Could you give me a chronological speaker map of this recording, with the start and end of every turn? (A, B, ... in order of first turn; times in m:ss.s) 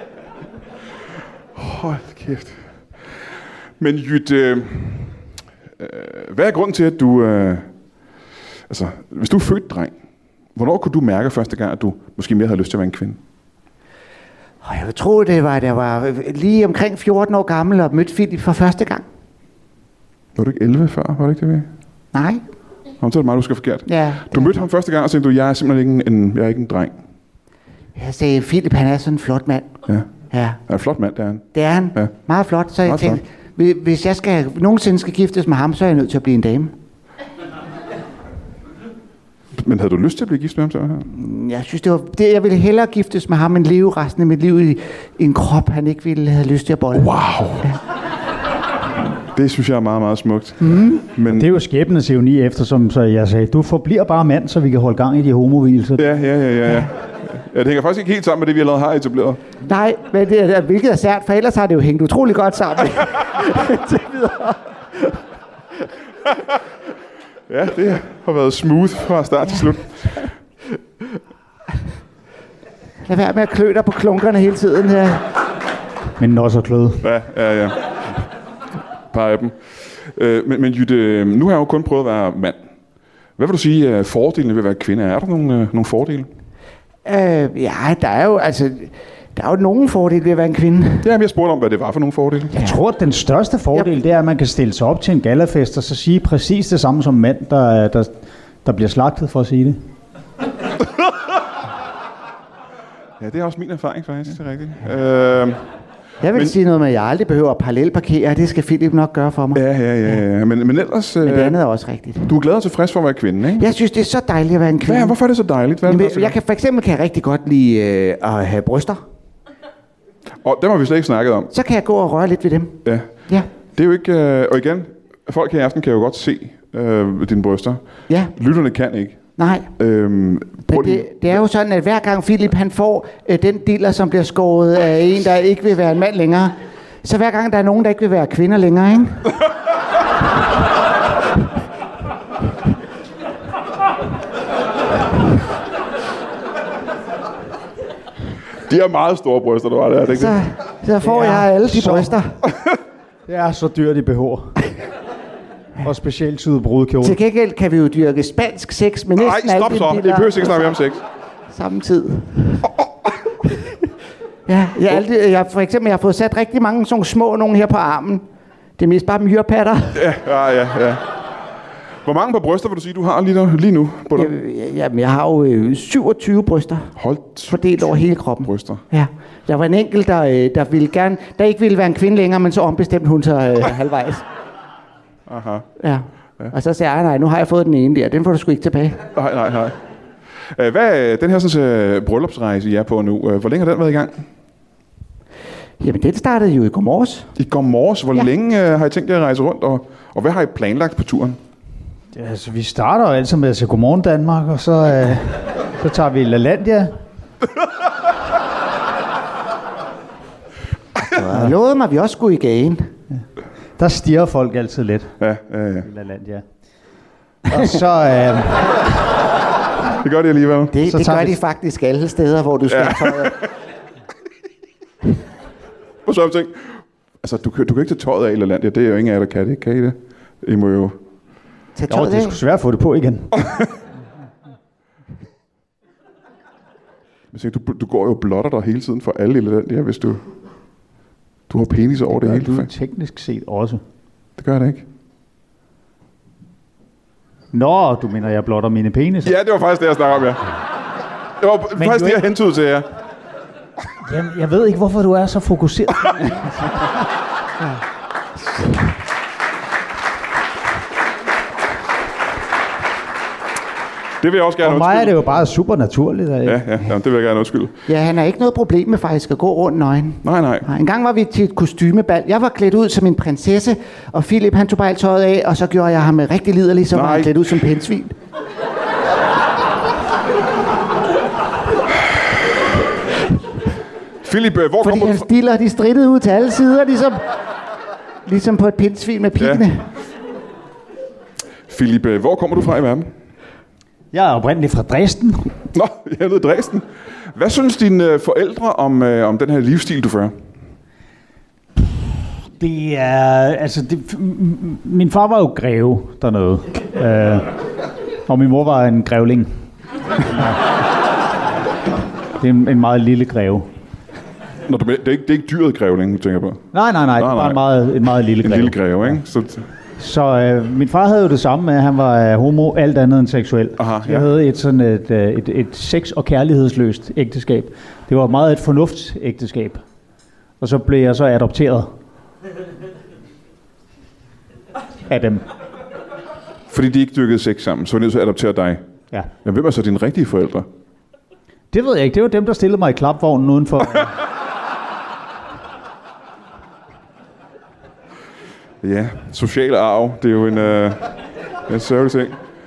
0:01.5-0:02.6 A
0:03.8-0:05.2 A
0:05.8-0:07.7 A
0:08.7-0:09.9 A
0:10.6-0:13.2 A
0:14.6-0:19.0 B
0:20.3-0:21.7 A
0:22.1-0:22.4 B
0:23.0-0:26.9 A
0:23.9-0:24.6 B
0:27.9-0:30.6 B
0:30.6-0:32.1 A
0:31.5-0:36.7 B
0:32.8-0:33.2 A
0:39.5-0:41.1 A
0:41.1-0:47.1 B
0:46.9-0:47.7 A
0:49.3-0:51.5 A
0:50.6-0:51.0 B
0:51.3-0:56.1 C
0:56.0-0:59.4 A
0:59.6-1:05.1 B
1:07.5-1:10.2 A
1:13.0-1:15.2 B
1:16.2-1:17.1 C
1:17.0-1:17.8 A
1:19.1-1:22.6 A
1:23.4-1:26.3 A
1:27.0-1:31.1 B
1:31.0-1:32.5 A
1:32.6-1:38.1 C
1:38.6-1:39.8 C
1:43.2-1:45.6 A
1:46.2-1:49.6 B
1:49.5-1:51.6 A
1:51.2-1:52.3 B
1:52.3-1:53.6 A
1:53.6-1:55.2 B
1:54.8-1:56.4 A
1:55.8-1:59.0 B
2:00.4-2:01.5 A
2:01.5-2:03.5 B
2:02.8-2:03.1 A
2:03.7-2:07.8 A
2:08.3-2:11.1 A
2:09.4-2:09.7 B
2:10.7-2:19.4 B
2:28.6-2:30.4 A
2:30.1-2:32.4 B
2:31.0-2:32.2 C
2:32.5-2:32.8 A
2:33.3-2:34.6 C
2:35.8-2:37.2 C
2:37.0-2:40.7 B
2:39.2-2:41.0 A
2:41.5-2:42.7 B
2:43.4-2:43.7 B
2:44.5-2:48.2 B
2:48.8-2:50.0 B
2:49.9-2:51.1 A
2:52.0-2:54.3 A
2:54.1-2:56.9 B
2:57.0-2:57.6 A
2:57.5-3:04.2 B
2:58.4-2:58.8 A
3:05.3-3:05.7 A
3:05.8-3:09.0 B
3:09.1-3:09.8 A
3:10.5-3:14.2 A
3:15.8-3:17.3 B
3:17.4-3:21.4 A
3:22.1-3:26.9 C
3:31.0-3:32.9 B
3:33.8-3:35.1 C
3:35.2-3:35.9 A
3:35.8-3:36.4 C
3:37.5-3:38.9 C
3:40.0-3:40.7 A
3:40.7-3:43.4 B
3:40.9-3:41.4 C
3:42.7-3:43.3 A
3:46.0-3:51.0 A
3:51.8-3:52.4 B
3:51.9-3:53.4 C
3:53.4-3:53.7 A
3:57.3-4:00.2 A
4:01.5-4:02.7 A
4:02.1-4:03.8 C
4:04.4-4:04.8 A
4:07.5-4:09.4 C
4:09.2-4:10.4 A
4:11.4-4:12.8 A
4:11.8-4:12.2 C
4:14.0-4:16.8 C
4:24.2-4:25.3 A
4:24.6-4:26.6 C
4:26.4-4:27.7 A
4:27.9-4:38.1 B
4:30.2-4:30.7 A
4:36.9-4:37.4 A
4:44.2-4:45.3 A
4:44.8-4:47.2 B
4:48.2-4:49.8 B
4:49.4-4:49.6 A
4:51.7-4:53.1 A
4:54.1-4:55.5 C
4:55.7-5:00.3 A
5:02.6-5:07.5 C
5:08.2-5:09.6 C
5:10.3-5:10.6 C
5:12.4-5:13.7 C
5:14.6-5:16.6 A
5:16.7-5:19.2 C
5:17.2-5:17.6 A
5:18.4-5:19.6 A
5:20.0-5:29.8 C
5:23.8-5:24.3 A
5:30.6-5:31.9 C
5:35.1-5:35.4 C
5:36.7-5:38.8 A
5:39.4-5:40.6 A
5:41.7-5:44.2 C
5:48.8-5:51.1 A
5:51.7-5:52.4 A